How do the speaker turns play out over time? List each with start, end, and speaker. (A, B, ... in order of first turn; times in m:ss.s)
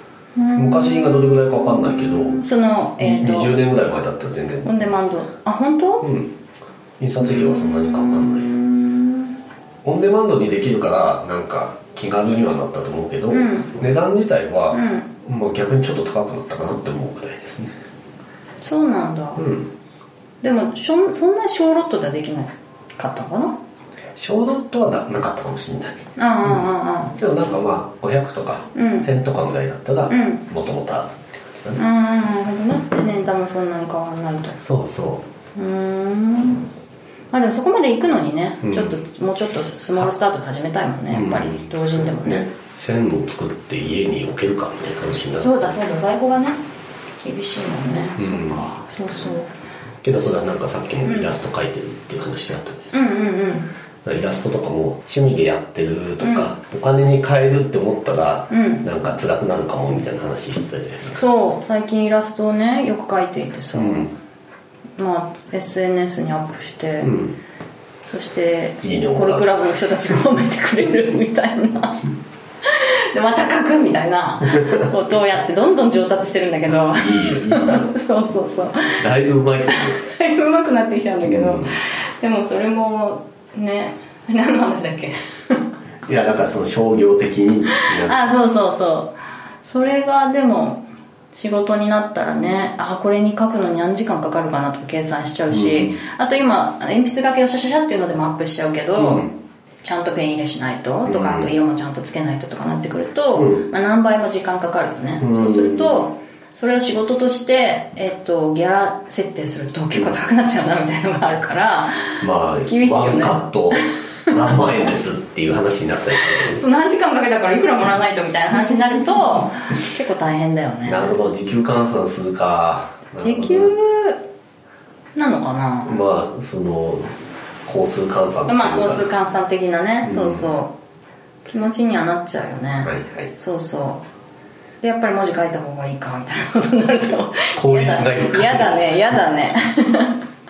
0:00.4-0:03.6 A
0:00.6-0:02.4 B
0:03.0-0:04.9 B
0:04.6-0:06.1 A
0:06.0-0:06.3 B
0:07.0-0:08.5 B
0:07.2-0:09.3 A
0:09.8-0:17.7 B
0:13.3-0:13.7 A
0:14.7-0:15.1 A
0:18.6-0:19.4 A
0:19.4-0:19.7 B
0:20.4-0:23.6 A
0:24.2-0:31.8 B
0:26.2-0:27.2 A
0:28.8-0:29.1 A
0:30.1-0:30.4 A
0:31.8-0:34.6 A
0:34.6-0:35.2 B
0:35.6-0:36.7 A
0:37.3-0:42.5 A
0:38.6-0:39.0 B
0:41.1-0:45.7 B
0:45.4-0:46.6 A
0:47.2-0:49.5 A
0:48.2-0:48.7 B
0:50.0-0:53.1 B
0:51.0-0:51.4 A
0:52.9-0:53.7 A
0:54.0-1:01.2 B
0:56.2-0:56.5 A
0:58.5-0:58.9 A
1:01.1-1:04.1 A
1:03.7-1:04.1 B
1:05.0-1:07.2 A
1:07.0-1:07.4 B
1:08.0-1:12.1 A
1:08.8-1:09.5 B
1:12.6-1:19.1 A
1:16.9-1:17.9 B
1:19.0-1:20.0 B
1:19.7-1:25.7 A
1:21.2-1:21.8 B
1:26.1-1:28.2 B
1:27.7-1:39.3 A
1:35.5-1:36.0 B
1:39.0-1:39.3 B
1:39.8-1:54.7 A
1:41.0-1:41.5 B
1:43.4-1:43.7 B
1:45.2-1:46.0 B
1:52.2-1:56.6 B
1:56.3-2:01.1 A
2:00.9-2:03.7 B
2:03.2-2:04.2 A
2:05.2-2:06.0 A
2:05.8-2:07.1 B
2:07.7-2:09.1 B
2:08.5-2:10.7 A
2:10.0-2:10.5 B
2:11.4-2:14.0 A
2:12.8-2:13.3 B
2:14.8-2:20.2 A
2:17.6-2:19.1 B